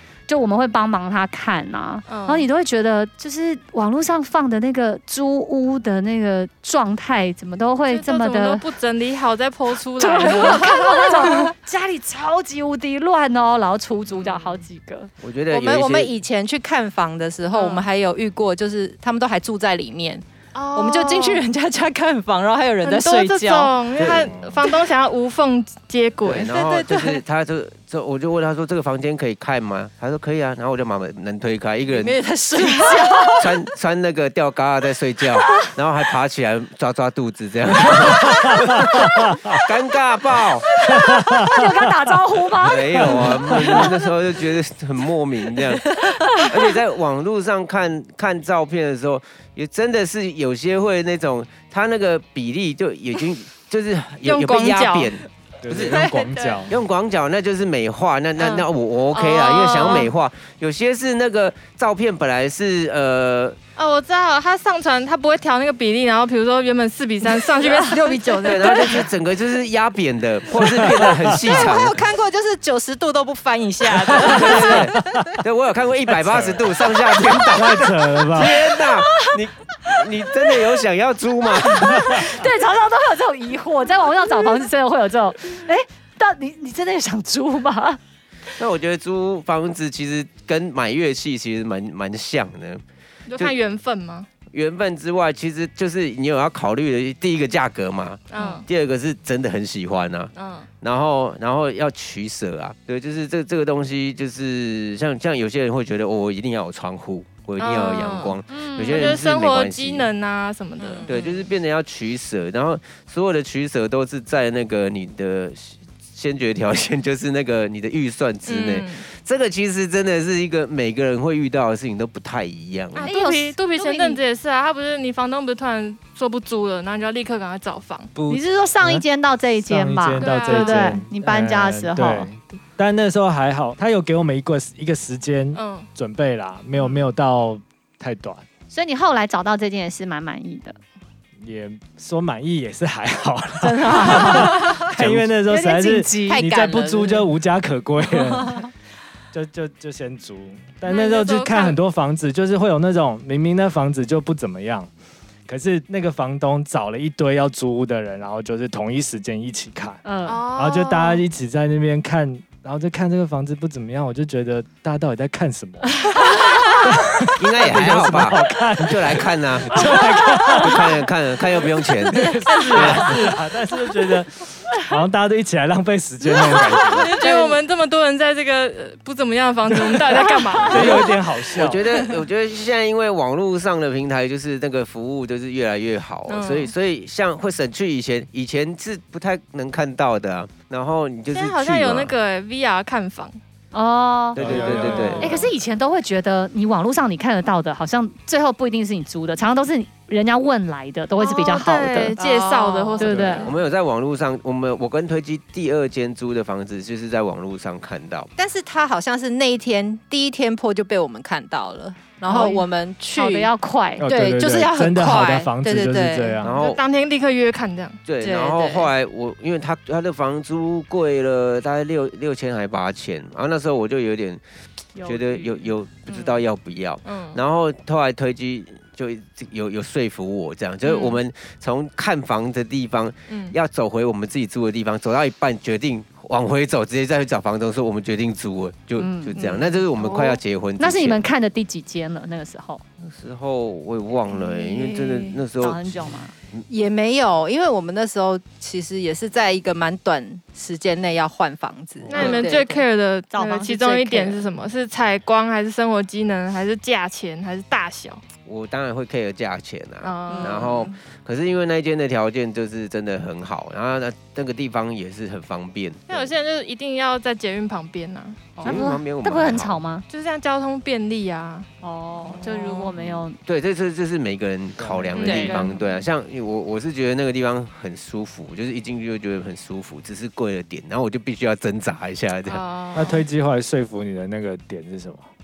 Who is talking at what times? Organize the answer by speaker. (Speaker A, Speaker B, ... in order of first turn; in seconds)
Speaker A: 0.3-8.6, 10.0-15.1, 40.7-43.6, 81.7-88.0, 108.5-109.2, 123.0-124.2, 128.3-132.3, 138.7-140.8, 143.6-144.8, 145.4-146.4, 160.1-160.4, 193.7-194.4, 195.2-202.2, 203.0-203.5, 212.3-212.6, 213.1-214.1, 225.0-226.3, 239.0-239.4, 240.8-242.8, 245.6-246.3, 253.3-254.4, 268.6-270.1, 271.8-273.4, 275.3-275.6
Speaker B: 2.1-2.5, 7.9-11.5, 14.1-14.6, 17.5-17.9, 20.5-21.5, 22.8-26.5, 54.2-55.1, 58.4-60.1, 63.8-69.1, 93.3-94.3, 98.3-98.7, 100.3-100.7, 107.6-111.1, 118.5-119.0, 123.0-128.1, 130.2-131.0, 135.5-135.9, 150.9-151.8, 160.3-161.2, 176.7-181.2, 186.3-186.7, 191.3-193.4, 194.7-195.5, 201.2-203.6, 212.3-212.6, 216.5-218.0, 227.1-227.4, 230.8-231.2, 233.3-233.6, 252.1-258.2, 260.0-261.0, 266.1-268.8, 270.1-271.7, 272.3-272.9, 275.1-276.1, 282.5-283.2
Speaker C: 15.2-16.2, 24.0-24.3, 26.2-32.2, 33.4-40.7, 42.6-56.1, 56.7-63.6, 68.4-72.0, 74.1-82.3, 88.6-92.8, 94.5-110.1, 111.1-123.1, 167.4-169.9, 170.5-173.3, 180.7-192.1, 194.3-195.4, 203.4-208.3, 216.4-216.8, 218.1-224.4, 225.0-241.2, 243.0-246.0, 252.1-252.5, 258.5-266.3, 268.6-269.8, 273.0-282.6
Speaker D: 15.5-23.8, 26.3-27.2, 31.9-33.5, 55.8-56.6, 68.0-69.0, 71.4-75.2, 110.8-111.5, 144.0-144.9, 146.3-147.3, 177.2-177.6, 202.2-203.1, 208.4-213.5, 214.1-216.4, 218.2-218.9, 239.4-239.7, 244.3-245.4, 246.7-252.8, 260.3-260.7, 275.3-275.6
Speaker E: 38.3-39.6, 40.9-41.9, 43.0-43.9, 55.6-56.8, 70.6-71.3, 74.1-75.3, 76.1-76.8, 77.5-78.7, 128.2-129.1, 129.6-138.4, 141.4-148.7, 149.3-154.9, 155.5-170.9, 172.1-177.2, 180.6-181.8, 194.4-195.4, 203.1-203.5, 214.0-216.6, 274.8-275.4, 282.9-285.3